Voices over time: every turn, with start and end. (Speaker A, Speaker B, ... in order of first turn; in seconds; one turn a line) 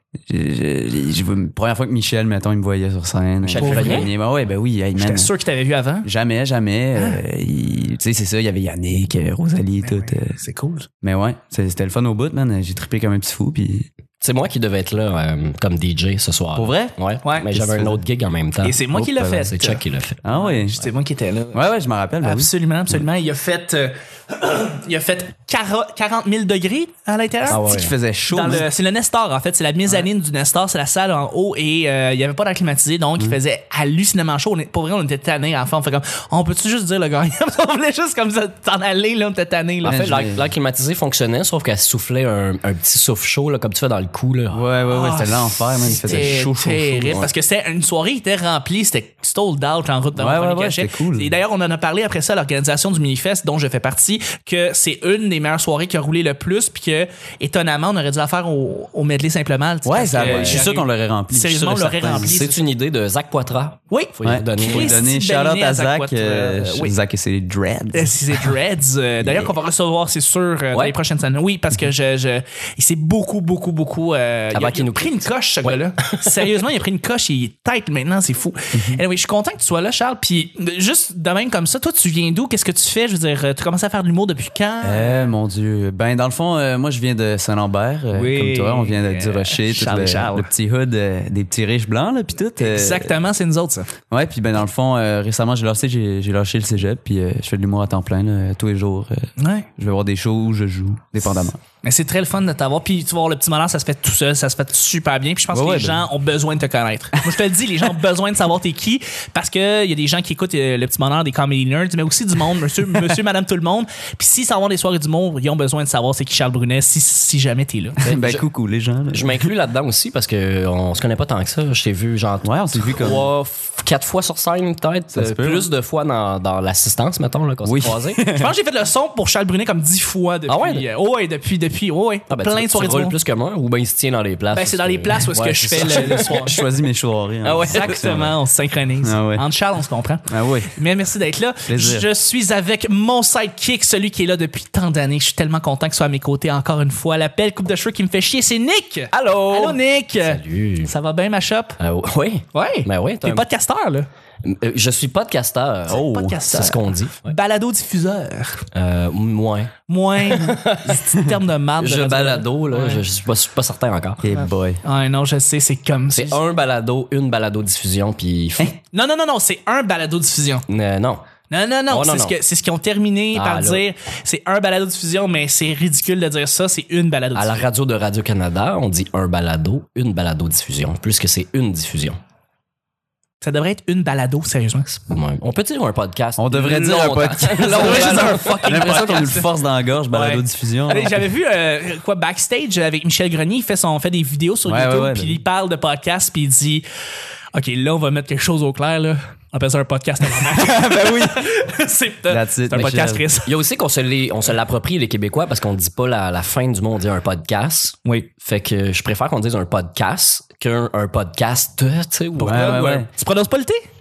Speaker A: 0.2-5.3
Speaker B: 3.4-4.1
Speaker C: 3.5-4.1
Speaker C: 5.0-6.1
Speaker A: 6.0-10.4
Speaker C: 7.0-7.2
Speaker C: 9.8-10.9
Speaker A: 11.0-13.9
Speaker B: 14.2-18.8
Speaker A: 16.5-16.9
Speaker A: 17.5-18.0
Speaker C: 18.6-19.8
Speaker A: 18.9-19.5
Speaker B: 19.4-20.2
Speaker A: 20.2-20.8
Speaker C: 20.3-21.6
Speaker A: 21.5-23.0
Speaker C: 22.2-27.6
Speaker B: 27.5-27.9
Speaker A: 27.5-28.7
Speaker C: 28.3-40.1
Speaker B: 39.8-44.6
Speaker A: 39.9-40.5
Speaker A: 44.5-47.2
Speaker C: 44.9-62.6
Speaker A: 50.1-51.3
Speaker A: 59.8-62.4
Speaker B: 60.2-60.6
Speaker B: 62.1-65.0
Speaker C: 63.9-66.9
Speaker A: 64.2-68.5
Speaker C: 67.9-85.3
Speaker B: 69.2-69.5
Speaker B: 74.5-76.3
Speaker A: 78.7-79.0
Speaker A: 84.8-93.1
Speaker C: 88.1-90.5
Speaker C: 92.6-93.9
Speaker A: 94.1-101.6
Speaker C: 99.4-99.7
Speaker C: 101.8-118.0
Speaker A: 105.5-106.0
Speaker A: 118.0-119.4
Speaker B: 118.0-118.5
Speaker B: 119.1-128.2
Speaker A: 122.4-123.2
Speaker A: 125.1-125.7
Speaker A: 127.6-128.5
Speaker C: 128.2-133.2
Speaker B: 130.5-130.8
Speaker B: 132.3-136.6
Speaker C: 134.5-136.6
Speaker A: 135.7-138.3
Speaker B: 137.4-138.3
Speaker C: 137.6-151.8
Speaker A: 139.0-139.4
Speaker A: 140.3-140.7
Speaker A: 141.7-142.1
Speaker B: 149.1-150.9
Speaker B: 151.8-153.4
Speaker C: 152.5-154.1
Speaker B: 154.4-157.3
Speaker A: 155.9-156.4
Speaker C: 155.9-158.7
Speaker B: 158.7-161.1
Speaker C: 159.9-163.0
Speaker B: 161.8-164.3
Speaker A: 164.2-164.8
Speaker C: 164.4-166.4
Speaker B: 166.1-168.7
Speaker C: 168.7-170.7
Speaker B: 170.7-171.2
Speaker C: 171.5-177.6
Speaker B: 171.9-172.4
Speaker B: 173.3-173.8
Speaker B: 177.3-182.2
Speaker C: 183.4-184.9
Speaker B: 185.0-189.0
Speaker A: 186.4-191.2
Speaker C: 187.6-189.5
Speaker C: 190.1-196.8
Speaker A: 194.7-195.4
Speaker C: 197.5-203.6
Speaker A: 200.3-201.5
Speaker A: 202.2-203.2
Speaker B: 202.7-213.1
Speaker C: 212.4-213.8
Speaker A: 212.4-213.1